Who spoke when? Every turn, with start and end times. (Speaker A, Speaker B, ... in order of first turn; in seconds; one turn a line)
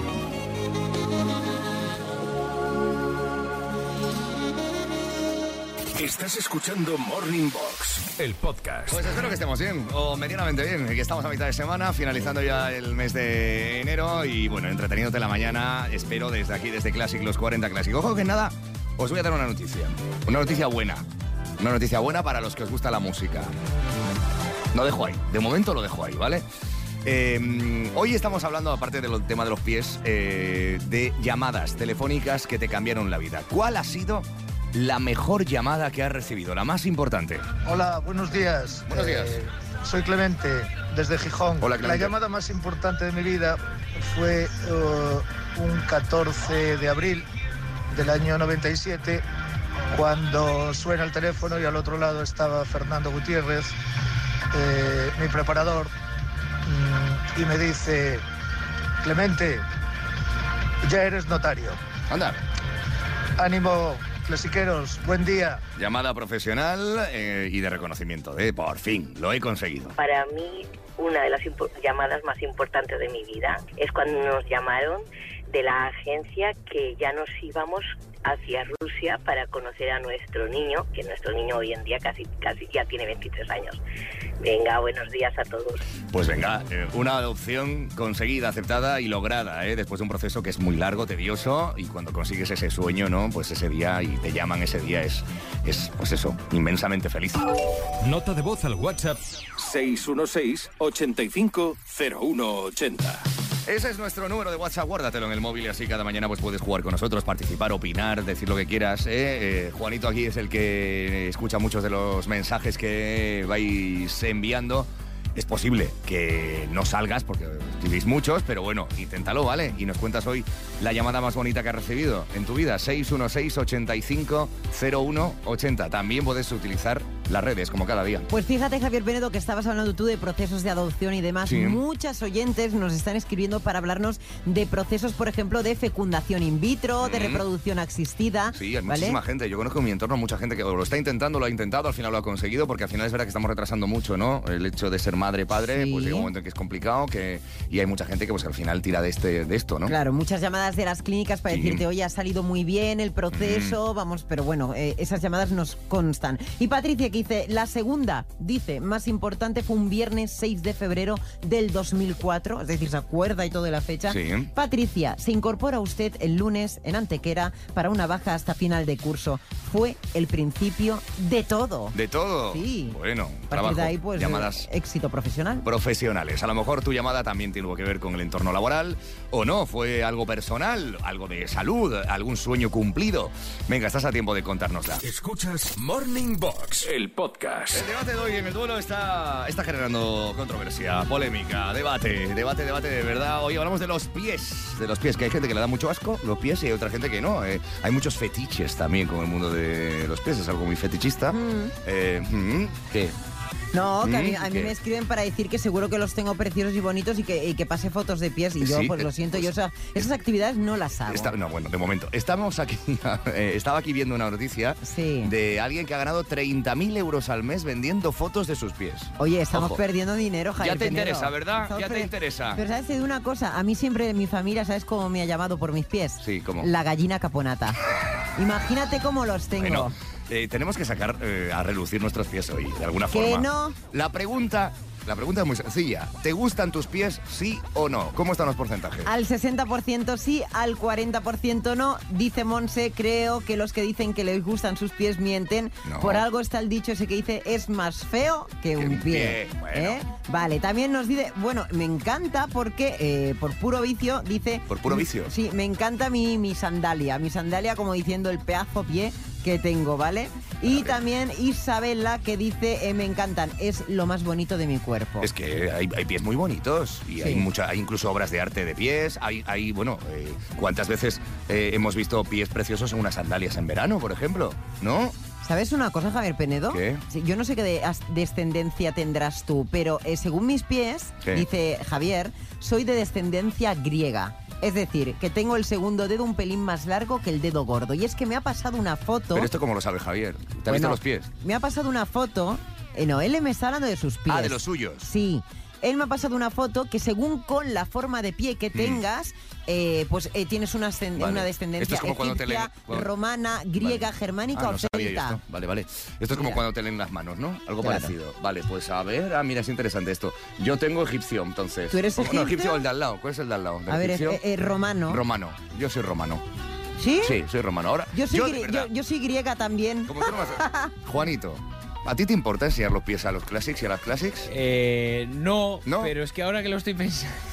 Speaker A: 6.0-9.0
Speaker B: 8.9-21.1
Speaker B: 21.6-23.5
Speaker B: 24.7-26.4
Speaker B: 27.0-37.5
Speaker C: 37.6-47.3
Speaker B: 38.9-39.4
Speaker B: 41.6-42.1
Speaker C: 47.9-49.2
Speaker C: 49.9-53.8
Speaker C: 54.5-55.9
Speaker C: 56.6-58.2
Speaker C: 59.0-59.6
Speaker C: 60.8-61.8
Speaker B: 62.1-62.4
Speaker C: 63.4-65.6
Speaker B: 65.8-70.0
Speaker D: 70.0-83.8
Speaker D: 84.4-85.8
Speaker B: 86.1-97.5
Speaker A: 98.0-103.2
Speaker B: 103.7-128.3
Speaker E: 128.3-139.2
Speaker B: 131.4-131.8
Speaker B: 137.0-137.5
Speaker B: 138.5-149.9
Speaker E: 145.6-146.3
Speaker E: 149.8-172.0
Speaker B: 151.5-151.8
Speaker B: 153.3-153.8
Speaker B: 164.1-164.5
Speaker B: 171.9-174.7
Speaker E: 172.5-173.0
Speaker E: 173.5-175.7
Speaker B: 175.7-185.0
Speaker A: 185.0-187.9
Speaker B: 187.7-203.2
Speaker E: 201.3-201.7
Speaker E: 203.7-211.3
Speaker B: 204.0-204.8
Speaker B: 208.6-210.1
Speaker B: 211.1-219.8
Speaker E: 214.8-215.3
Speaker E: 219.2-227.8
Speaker B: 220.6-222.6
Speaker B: 226.2-226.7
Speaker E: 228.4-229.9
Speaker B: 229.6-239.1
Speaker E: 233.1-233.8
Speaker E: 239.1-265.3
Speaker B: 245.8-246.2
Speaker B: 248.8-250.0
Speaker B: 254.7-255.3
Speaker B: 260.6-261.0
Speaker B: 265.2-275.2
Speaker E: 267.2-267.4
Speaker E: 275.4-289.5
Speaker B: 276.7-277.0
Speaker B: 289.3-291.3
Speaker E: 290.7-305.4
Speaker B: 294.3-295.1
Speaker B: 298.7-299.0
Speaker B: 301.2-303.1
Speaker B: 303.8-314.4
Speaker E: 306.3-306.6
Speaker E: 307.8-308.1
Speaker E: 311.9-312.8
Speaker E: 313.9-315.2
Speaker B: 315.1-316.4
Speaker E: 317.0-317.4
Speaker B: 317.2-318.9
Speaker E: 318.1-320.9
Speaker B: 320.1-324.5
Speaker F: 324.5-327.4
Speaker B: 325.9-326.1